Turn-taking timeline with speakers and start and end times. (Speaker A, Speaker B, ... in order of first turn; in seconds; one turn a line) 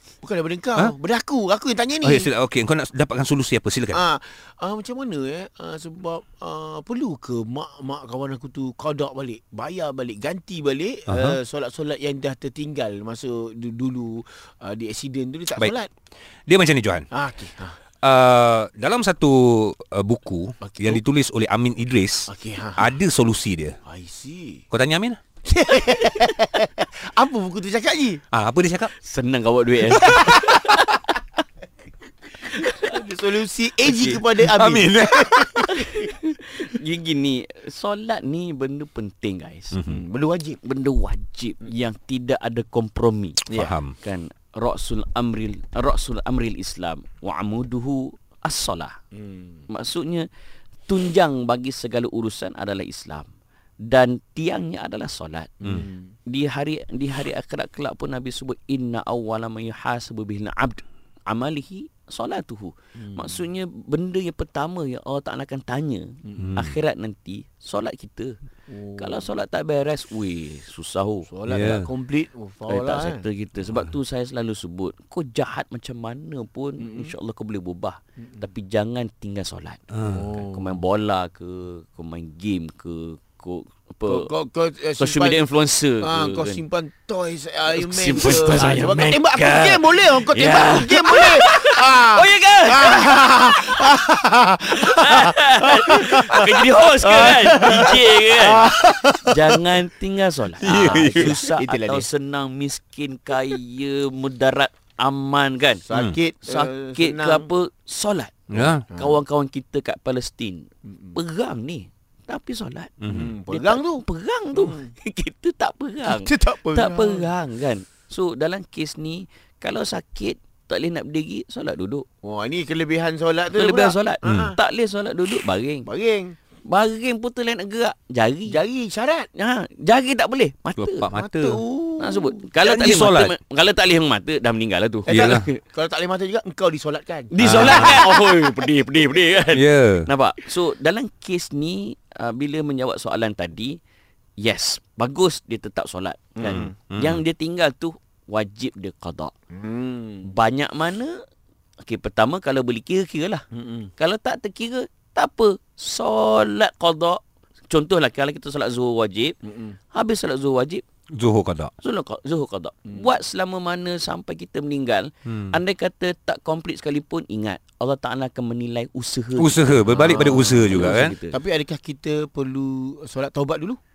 Speaker A: 0.2-2.3
Speaker B: 2.0-4.0
Speaker A: 3.9-15.9
Speaker B: 11.1-11.4
Speaker B: 16.5-17.1
Speaker A: 17.1-17.8
Speaker B: 18.0-23.8
Speaker A: 20.6-21.0
Speaker A: 22.3-22.9
Speaker A: 23.9-24.6
Speaker B: 24.7-25.2
Speaker A: 25.4-28.2
Speaker B: 28.3-28.9
Speaker C: 29.0-31.0
Speaker A: 30.0-30.8
Speaker C: 32.5-32.9
Speaker A: 32.8-36.1
Speaker C: 33.9-34.2
Speaker B: 34.0-35.7
Speaker C: 35.7-39.8
Speaker B: 39.7-40.0
Speaker A: 39.9-40.6
Speaker C: 40.6-43.5
Speaker B: 43.5-43.9
Speaker C: 44.0-49.0
Speaker A: 49.1-49.6
Speaker C: 49.7-50.3
Speaker C: 50.9-53.3
Speaker C: 53.9-68.3
Speaker A: 55.6-56.0
Speaker A: 63.0-63.4
Speaker A: 66.2-66.6
Speaker B: 66.4-66.7
Speaker A: 68.7-69.3
Speaker C: 69.0-71.3
Speaker A: 71.3-73.2
Speaker B: 71.5-71.9
Speaker C: 72.7-84.3
Speaker A: 76.8-77.1
Speaker B: 79.9-80.2
Speaker A: 80.0-80.8
Speaker A: 84.1-85.4
Speaker C: 85.0-86.6
Speaker A: 86.0-99.6
Speaker C: 87.7-93.9
Speaker B: 88.5-88.8
Speaker C: 94.8-105.8
Speaker B: 100.6-101.5
Speaker A: 100.7-102.1
Speaker A: 105.9-107.5
Speaker C: 106.5-113.0
Speaker B: 108.5-108.8
Speaker A: 108.9-109.2
Speaker A: 110.9-111.2
Speaker B: 113.0-113.3
Speaker A: 113.1-114.9
Speaker C: 113.5-122.0
Speaker A: 116.0-117.3
Speaker A: 122.2-124.6
Speaker C: 123.5-125.9
Speaker B: 124.2-124.5
Speaker A: 125.8-126.3
Speaker C: 126.7-128.6
Speaker A: 128.5-129.3
Speaker C: 129.4-131.1
Speaker B: 130.8-131.6
Speaker A: 131.1-132.4
Speaker C: 132.0-135.6
Speaker B: 132.6-133.3
Speaker A: 135.1-138.5
Speaker B: 135.1-135.4
Speaker C: 137.3-143.8
Speaker B: 137.4-138.0
Speaker B: 139.5-140.1
Speaker C: 144.4-149.3
Speaker A: 146.4-146.7
Speaker B: 146.5-147.2
Speaker A: 149.5-150.3
Speaker C: 150.3-151.2
Speaker C: 151.8-153.4
Speaker A: 153.5-153.9
Speaker C: 154.0-159.3
Speaker A: 159.4-159.8
Speaker C: 159.9-160.8
Speaker B: 161.1-161.7
Speaker C: 161.8-171.4
Speaker B: 165.3-165.6
Speaker B: 169.4-171.1
Speaker A: 169.9-173.8